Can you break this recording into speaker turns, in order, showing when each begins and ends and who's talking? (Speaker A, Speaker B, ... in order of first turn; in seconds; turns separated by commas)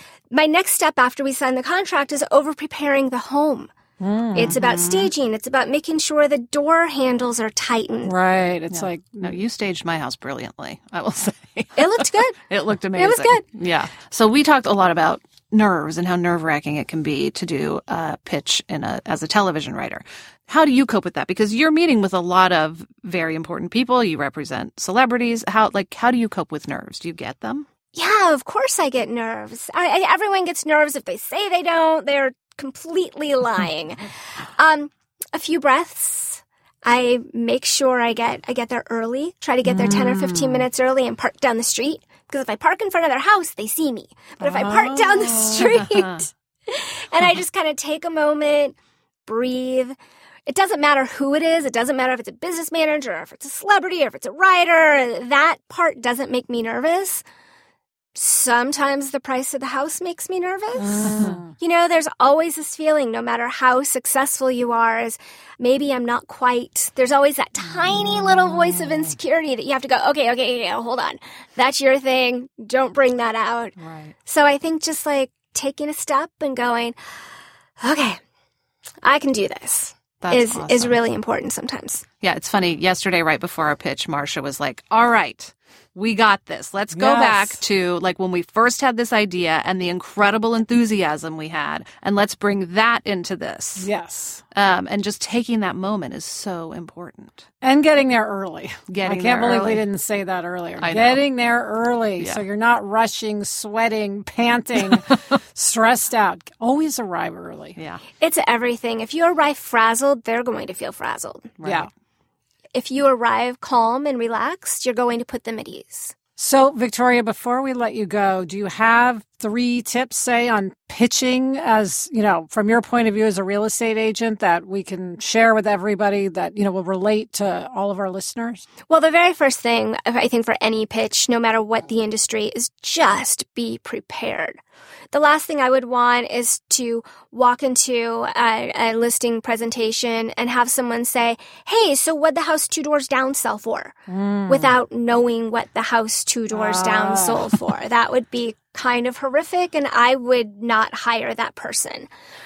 Speaker A: 0.3-3.7, Speaker B: 4.0-4.6, Speaker A: 4.3-8.1, Speaker C: 4.5-5.1, Speaker B: 8.1-9.3, Speaker C: 8.7-27.7, Speaker A: 11.8-12.4, Speaker A: 12.9-13.4, Speaker A: 27.9-48.8, Speaker C: 39.7-40.7, Speaker B: 44.4-45.8, Speaker C: 45.5-46.2, Speaker A: 49.3-50.0, Speaker A: 50.5-57.2, Speaker A: 58.1-77.0, Speaker B: 60.8-61.5, Speaker C: 73.8-74.1, Speaker A: 77.8-78.2, Speaker A: 79.0-82.0, Speaker C: 80.2-81.0, Speaker C: 82.2-93.9, Speaker B: 86.9-87.6, Speaker B: 93.8-94.4, Speaker C: 94.5-97.5, Speaker B: 97.6-107.8, Speaker C: 98.9-99.8, Speaker C: 100.8-101.2, Speaker C: 107.8-108.0, Speaker A: 108.2-111.5, Speaker C: 111.6-111.9, Speaker B: 111.6-111.9, Speaker A: 112.7-116.2, Speaker B: 116.4-128.7, Speaker A: 128.9-134.6, Speaker A: 135.1-144.0, Speaker B: 144.1-144.7, Speaker A: 144.5-152.1, Speaker B: 146.5-147.6